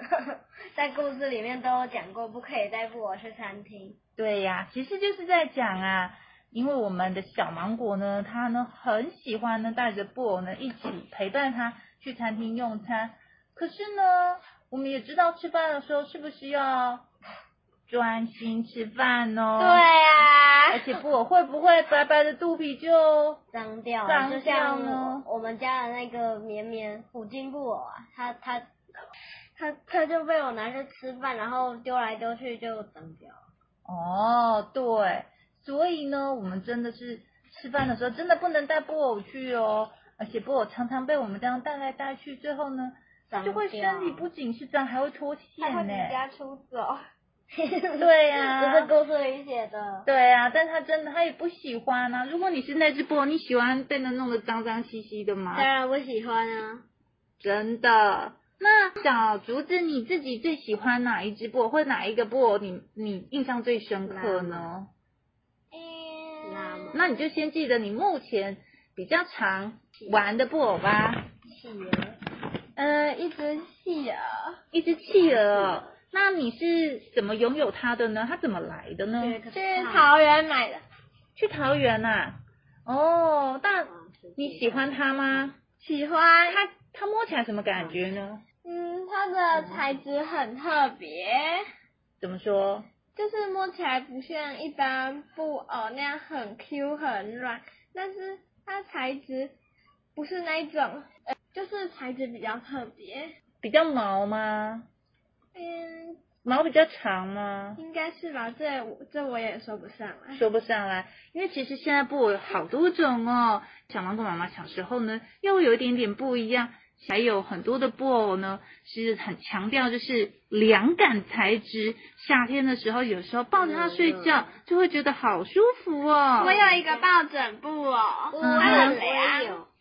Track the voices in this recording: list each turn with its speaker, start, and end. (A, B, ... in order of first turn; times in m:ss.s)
0:00.2-0:04.0 A
0:04.2-0:17.0 B
0:17.9-0:19.8 B
0:19.6-0:21.0 C
0:20.7-0:23.4 B
0:23.5-0:28.7 A
0:24.1-0:25.3 B
0:29.6-0:33.4 A
0:33.9-0:46.2 B
0:43.3-0:44.3 A
0:45.6-0:47.1 C
0:47.5-0:50.1 A
0:48.0-0:48.9 B
0:50.1-0:55.7 B
0:55.5-0:56.8 A
0:57.4-1:04.9 B
1:04.0-1:04.7 A
1:05.7-1:07.2 C
1:06.4-1:07.1 A
1:06.9-1:11.2 B
1:11.5-1:12.2 A
1:12.8-1:14.6 C
1:14.7-1:19.4 B
1:15.1-1:15.9 A
1:19.2-1:20.1 A
1:19.5-1:20.8 C
1:21.4-1:25.6 B
1:23.9-1:25.5 A
1:25.8-1:26.6 C
1:26.5-1:28.4 B
1:27.7-1:28.1 A
1:28.6-1:31.7 C
1:29.5-1:30.0 A
1:32.2-1:32.9 B
1:33.2-1:39.6 C
1:40.2-1:43.3 C
1:43.6-1:44.9 B
1:45.6-1:46.2 C
1:46.4-1:47.8 B
1:47.8-1:50.4 C
1:50.3-2:06.6 B
2:03.5-2:04.6 A
2:06.3-2:07.1 A
2:06.4-2:09.6 C
2:08.3-2:09.7 A
2:08.4-2:09.0 B